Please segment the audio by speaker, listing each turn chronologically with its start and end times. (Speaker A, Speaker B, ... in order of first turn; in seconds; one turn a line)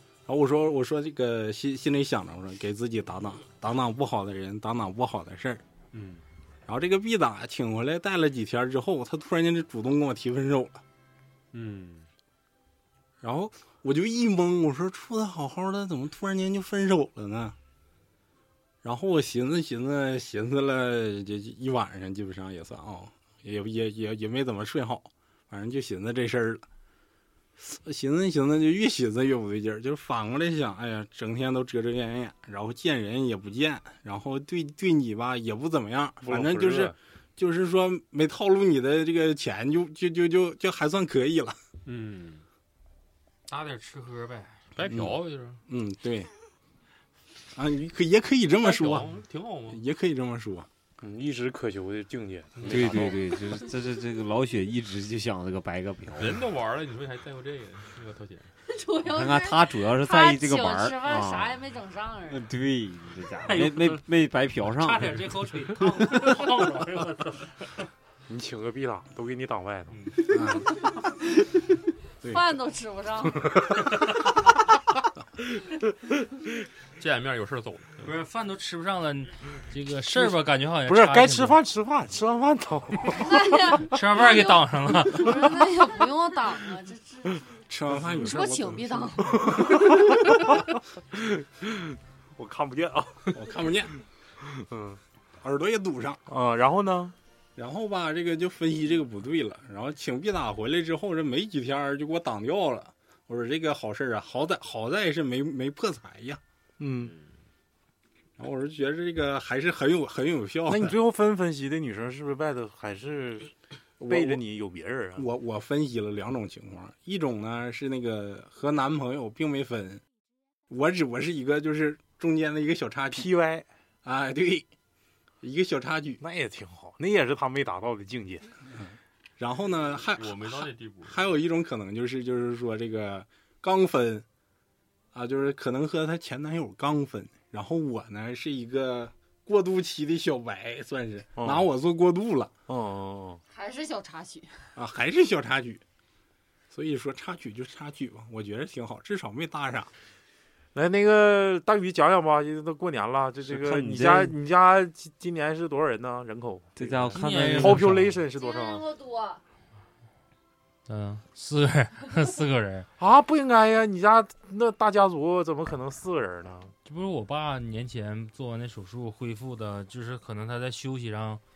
Speaker A: 0.2-5.6
Speaker B: 5.9-6.2
Speaker A: 6.7-10.8
Speaker B: 11.5-12.1
Speaker A: 13.2-17.6
Speaker A: 18.8-26.6
Speaker A: 27.6-41.6
Speaker C: 36.2-36.9
Speaker B: 41.9-42.4
Speaker D: 43.5-44.7
Speaker E: 44.7-45.6
Speaker A: 44.9-46.3
Speaker A: 47.5-50.7
Speaker E: 48.6-49.8
Speaker C: 51.0-53.2
Speaker E: 52.6-53.2
Speaker B: 52.7-56.4
Speaker E: 56.1-58.5
Speaker F: 58.7-62.4
Speaker B: 59.1-61.6
Speaker B: 62.3-65.3
Speaker D: 63.5-64.0
Speaker D: 64.6-67.5
Speaker C: 68.3-70.1
Speaker A: 70.3-71.1
Speaker F: 72.2-73.6
Speaker E: 77.0-78.1
Speaker D: 78.0-81.6
Speaker C: 80.9-83.4
Speaker F: 83.1-87.5
Speaker D: 83.9-85.3
Speaker A: 87.7-90.1
Speaker F: 88.2-89.6
Speaker C: 89.5-90.3
Speaker C: 91.2-93.4
Speaker A: 93.3-93.9
Speaker C: 94.5-95.0
Speaker A: 95.4-96.2
Speaker C: 96.3-97.1
Speaker A: 97.5-106.4
Speaker C: 106.8-107.1
Speaker A: 108.4-111.0
Speaker C: 110.7-113.5
Speaker A: 114.0-114.4
Speaker C: 114.0-115.3
Speaker A: 115.2-120.0
Speaker A: 120.7-123.3
Speaker C: 123.1-123.6
Speaker A: 124.0-124.7
Speaker A: 125.4-126.2
Speaker C: 126.2-128.5
Speaker A: 128.7-134.2
Speaker E: 130.2-131.2
Speaker A: 135.1-142.5
Speaker C: 141.4-141.7
Speaker C: 142.7-143.4
Speaker F: 143.5-144.7
Speaker A: 144.8-145.8
Speaker A: 146.7-149.9
Speaker C: 150.7-158.8
Speaker B: 153.4-154.3
Speaker B: 156.8-158.2
Speaker D: 157.1-158.1
Speaker F: 158.3-159.4
Speaker D: 160.9-162.9
Speaker C: 163.0-166.7
Speaker D: 166.8-171.4